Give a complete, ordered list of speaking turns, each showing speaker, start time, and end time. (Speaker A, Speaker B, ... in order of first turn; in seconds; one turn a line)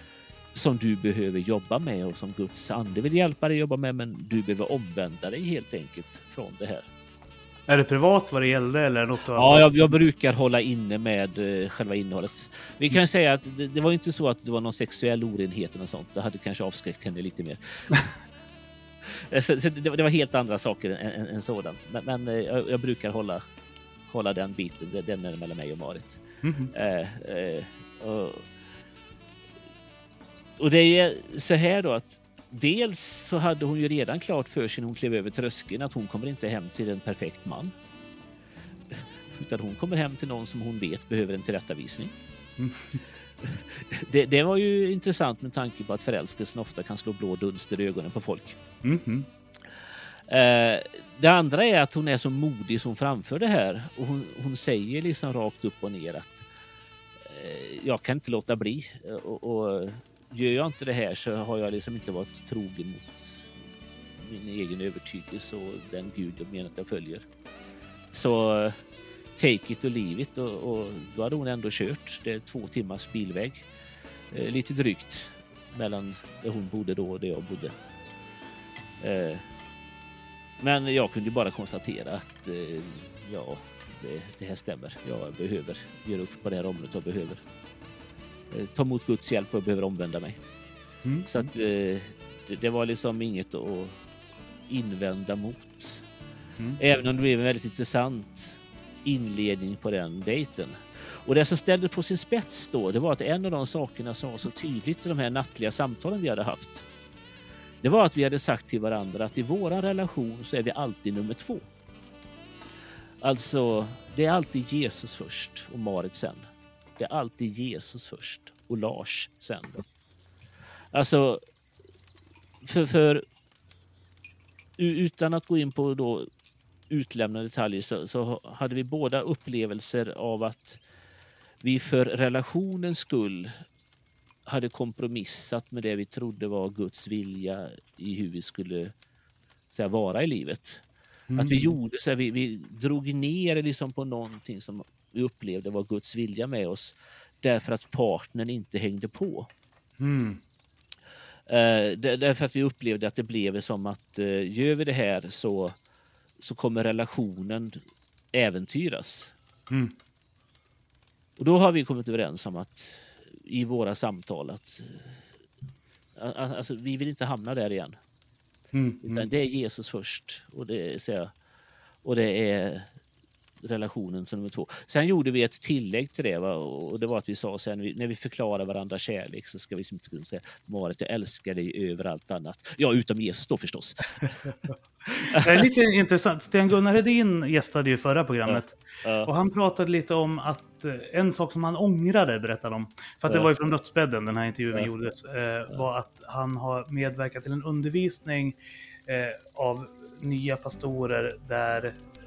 Speaker A: 0.5-6.9
Speaker B: 7.7-9.7
Speaker A: 9.3-17.9
Speaker A: 19.0-23.4
Speaker A: 24.1-28.4
Speaker B: 26.4-26.7
Speaker A: 30.6-37.7
Speaker A: 38.9-42.1
Speaker B: 42.6-43.0
Speaker A: 43.4-48.6
Speaker B: 48.8-49.3
Speaker A: 50.3-56.5
Speaker A: 57.2-63.5
Speaker A: 64.2-67.3
Speaker A: 68.1-68.8
Speaker A: 69.4-73.7
Speaker A: 74.3-77.7
Speaker A: 79.0-79.5
Speaker A: 80.6-87.4
Speaker A: 88.5-90.4
Speaker B: 91.0-91.5
Speaker A: 91.3-94.0
Speaker A: 94.7-96.0
Speaker A: 96.8-106.8
Speaker A: 107.8-111.7
Speaker A: 113.2-119.8
Speaker A: 120.9-121.4
Speaker A: 122.6-123.2
Speaker A: 124.8-126.3
Speaker A: 126.9-130.8
Speaker A: 131.6-133.6
Speaker A: 134.5-138.9
Speaker A: 139.7-140.8
Speaker B: 141.3-141.7
Speaker A: 141.4-149.5
Speaker B: 150.0-150.4
Speaker A: 151.5-155.8
Speaker A: 156.4-157.8
Speaker A: 158.3-159.3
Speaker A: 161.4-165.2
Speaker A: 166.2-168.0
Speaker B: 168.7-169.3
Speaker A: 169.1-171.3
Speaker A: 172.0-172.9
Speaker A: 173.6-184.4
Speaker A: 185.1-185.6
Speaker B: 185.2-202.0
Speaker A: 188.5-189.3